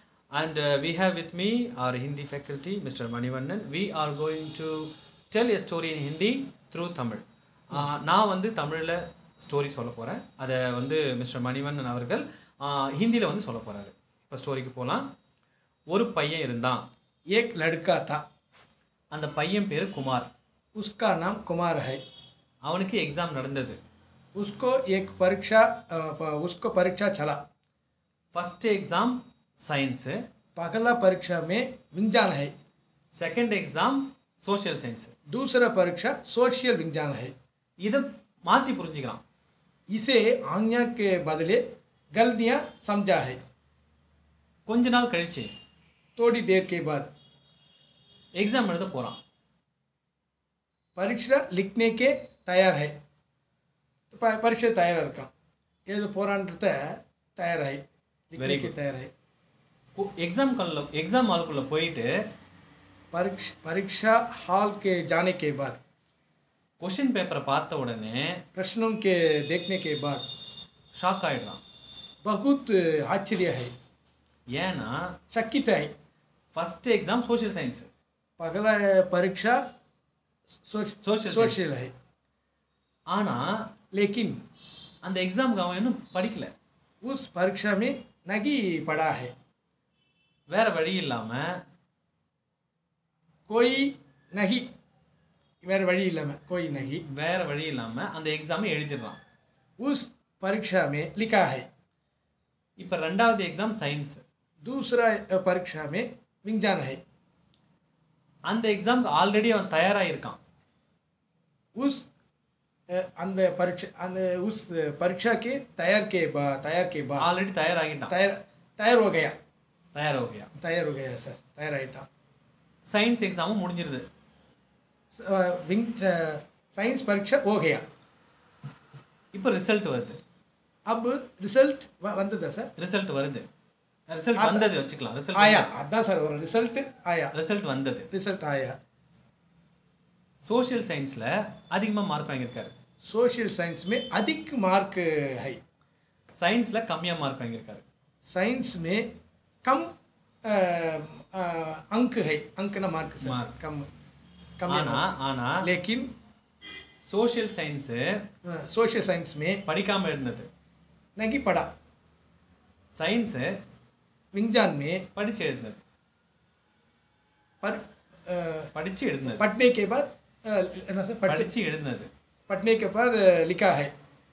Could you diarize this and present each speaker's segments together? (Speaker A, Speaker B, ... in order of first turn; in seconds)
Speaker A: 0.3-15.1, 15.9-16.9, 19.1-20.3, 22.6-23.8, 28.3-30.2, 33.1-35.1, 37.8-39.2, 44.7-45.5, 48.4-49.2, 58.4-58.7, 60.0-62.1, 66.8-68.4, 71.0-71.6, 74.5-75.1, 76.5-77.9, 81.0-81.6, 83.1-83.5, 85.0-86.5, 90.5-91.6, 97.0-99.2, 102.8-104.2, 108.5-110.4, 117.2-118.1, 120.0-120.5, 122.9-124.0, 129.3-130.2, 132.8-133.5, 134.1-135.7, 137.3-138.1, 140.4-142.7, 146.4-147.8, 153.2-153.6, 154.7-155.7, 157.0-158.2, 159.7-160.5, 162.9-163.6, 165.1-165.8, 168.7-169.4, 171.3-172.1
Speaker B: 17.3-18.2, 20.8-22.0, 24.4-27.4, 30.6-32.5, 35.3-37.3, 39.9-41.6, 42.2-43.4, 46.2-47.1, 51.0-52.9, 54.1-55.3, 55.9-59.1, 63.1-65.8, 68.5-70.2, 72.2-73.7, 75.3-75.9, 78.4-79.6, 80.7-81.9, 83.9-84.4, 87.0-89.3, 93.5-94.7, 95.6-97.0, 99.8-101.7, 104.6-107.0, 111.8-112.1, 112.9-117.3, 118.1-119.3, 120.6-122.1, 125.2-127.8, 130.9-132.7, 134.4-134.7, 135.3-137.3, 138.1-138.8, 143.1-145.6, 148.3-149.1, 149.6-149.9, 150.4-153.9, 154.6-155.1, 155.6-156.1, 158.5-159.6, 161.2-161.7, 164.3-165.1, 167.6-168.7, 169.4-171.5, 172.5-173.9